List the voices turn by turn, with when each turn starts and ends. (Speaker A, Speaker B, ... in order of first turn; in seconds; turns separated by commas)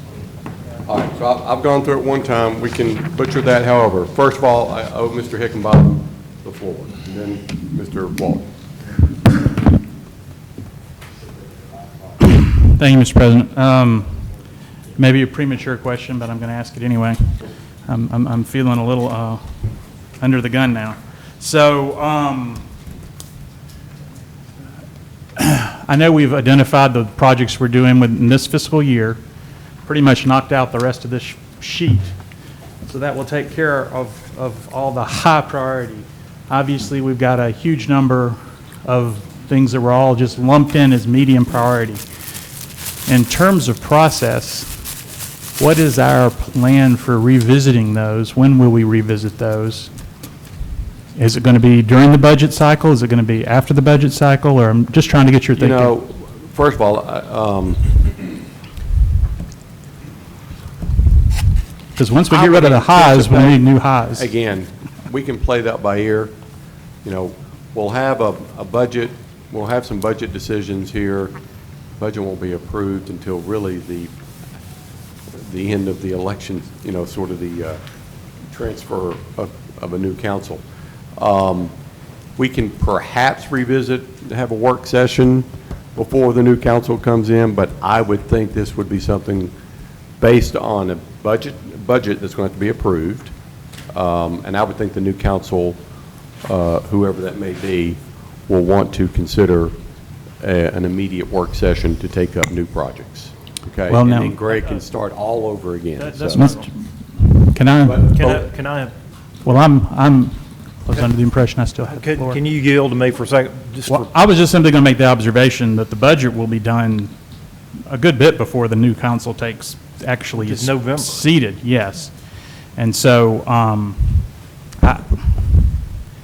Speaker A: 0.8-8.5, Speaker B: 12.2-14.3, Speaker B: 14.9-17.2, Speaker B: 17.9-19.4, Speaker B: 20.2-22.6, Speaker B: 25.4-29.2, Speaker B: 29.9-32.1, Speaker B: 32.8-42.0, Speaker B: 43.1-44.7, Speaker B: 45.6-49.9, Speaker B: 51.2-55.9, Speaker A: 55.6-58.0, Speaker B: 62.0-64.3, Speaker A: 62.3-66.3, Speaker A: 67.0-71.3, Speaker A: 72.0-74.1, Speaker A: 75.3-77.8, Speaker A: 78.5-80.6, Speaker A: 81.2-81.7, Speaker A: 82.4-89.5, Speaker A: 90.2-93.3, Speaker A: 93.9-95.8, Speaker A: 96.4-99.7, Speaker A: 100.4-106.6, Speaker B: 103.9-104.8, Speaker B: 106.0-108.2, Speaker A: 107.8-108.5, Speaker C: 108.1-108.9, Speaker B: 109.4-112.4, Speaker C: 111.9-114.1, Speaker B: 113.8-117.1, Speaker B: 117.9-122.1, Speaker C: 120.4-121.2, Speaker B: 122.8-124.3, Speaker B: 124.8-125.7